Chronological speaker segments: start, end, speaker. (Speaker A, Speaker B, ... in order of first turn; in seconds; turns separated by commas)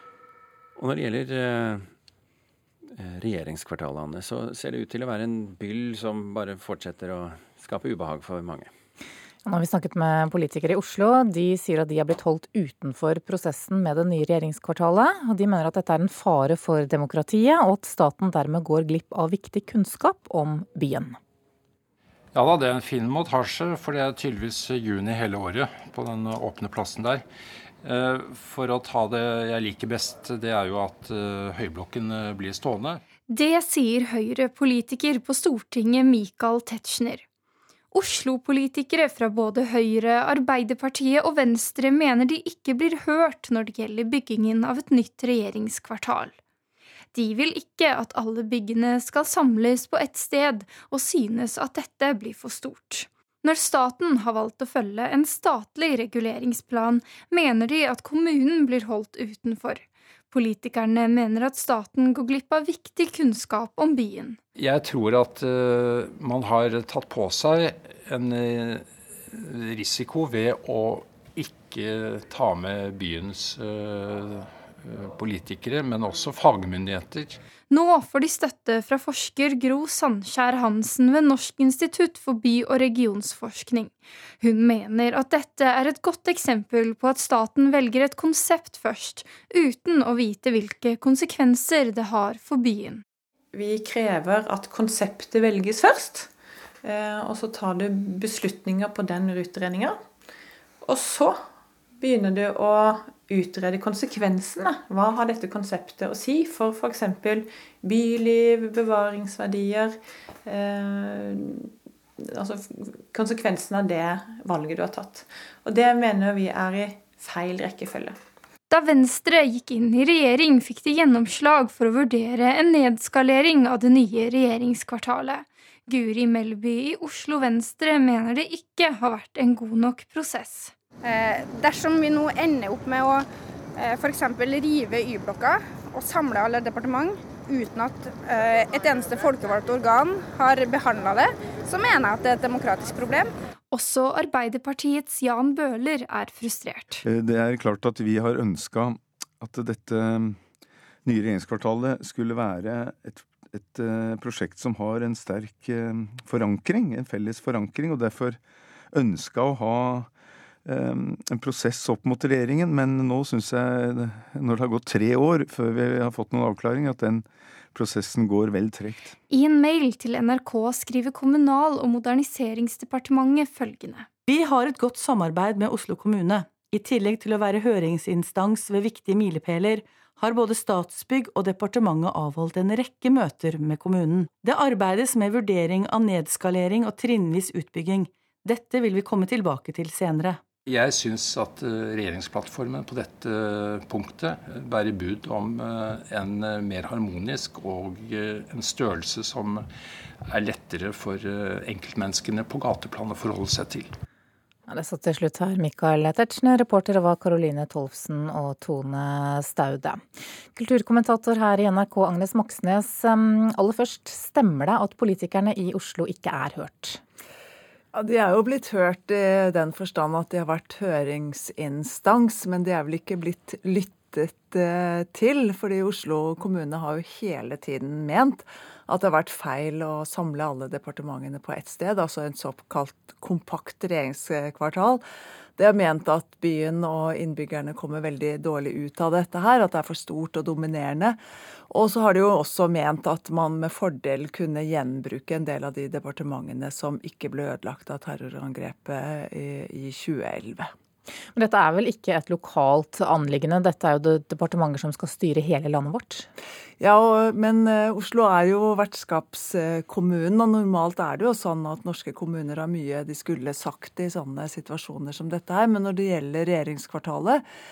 Speaker A: 0.8-1.9, Speaker A: 3.0-8.7, Speaker B: 9.4-21.2, Speaker C: 22.3-27.2, Speaker C: 27.8-33.0, Speaker D: 33.3-37.2, Speaker D: 37.9-46.4, Speaker D: 47.1-64.4, Speaker C: 64.5-77.4, Speaker D: 77.7-93.0, Speaker E: 93.5-96.3, Speaker E: 96.8-100.0, Speaker E: 100.8-101.5, Speaker E: 102.0-118.2, Speaker D: 118.7-130.7, Speaker F: 131.0-143.3, Speaker D: 143.7-147.0, Speaker G: 147.0-150.4, Speaker G: 151.1-158.4, Speaker G: 158.9-160.1, Speaker G: 160.7-169.2, Speaker D: 169.3-174.1, Speaker H: 174.3-190.4, Speaker C: 190.7-199.7, Speaker C: 200.3-203.9, Speaker B: 204.7-210.0, Speaker B: 210.6-217.0, Speaker I: 217.9-235.0, Speaker I: 235.6-241.2, Speaker I: 241.7-250.7, Speaker B: 251.3-256.3, Speaker I: 256.8-267.4